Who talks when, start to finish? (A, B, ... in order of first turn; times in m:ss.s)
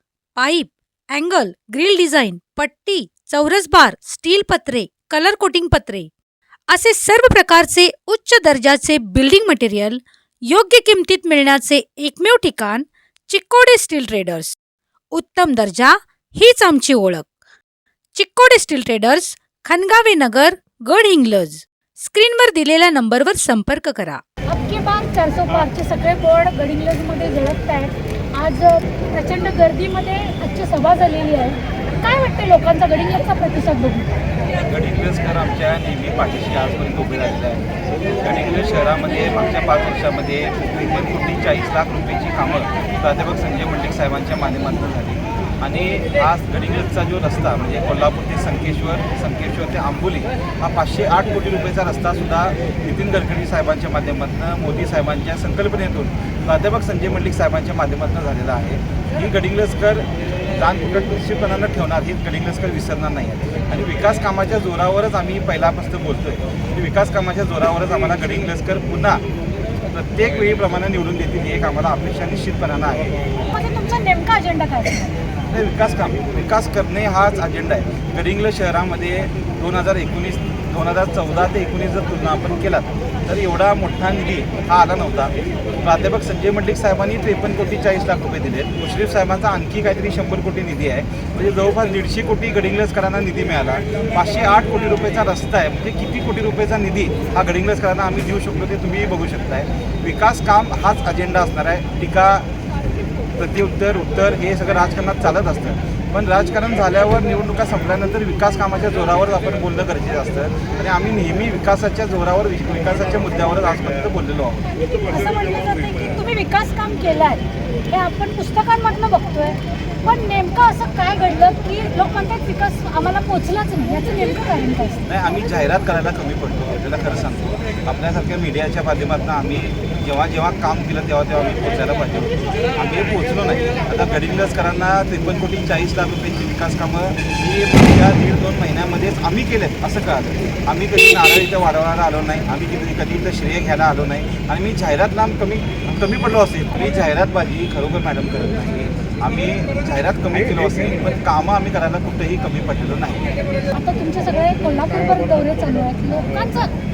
0:00.4-0:06.1 A
0:06.7-0:14.5 A
0:15.1-0:17.3 A
0:18.1-0:24.2 A
0:24.5-0:34.2 B
0:34.6-0:37.7 C
0:38.2-1:09.2 C
1:09.9-1:13.1 C
1:13.4-1:15.2 B
1:15.5-1:42.5 C
1:43.4-1:54.7 C
1:54.8-2:05.0 B
2:05.1-2:33.2 C
2:33.7-2:36.7 B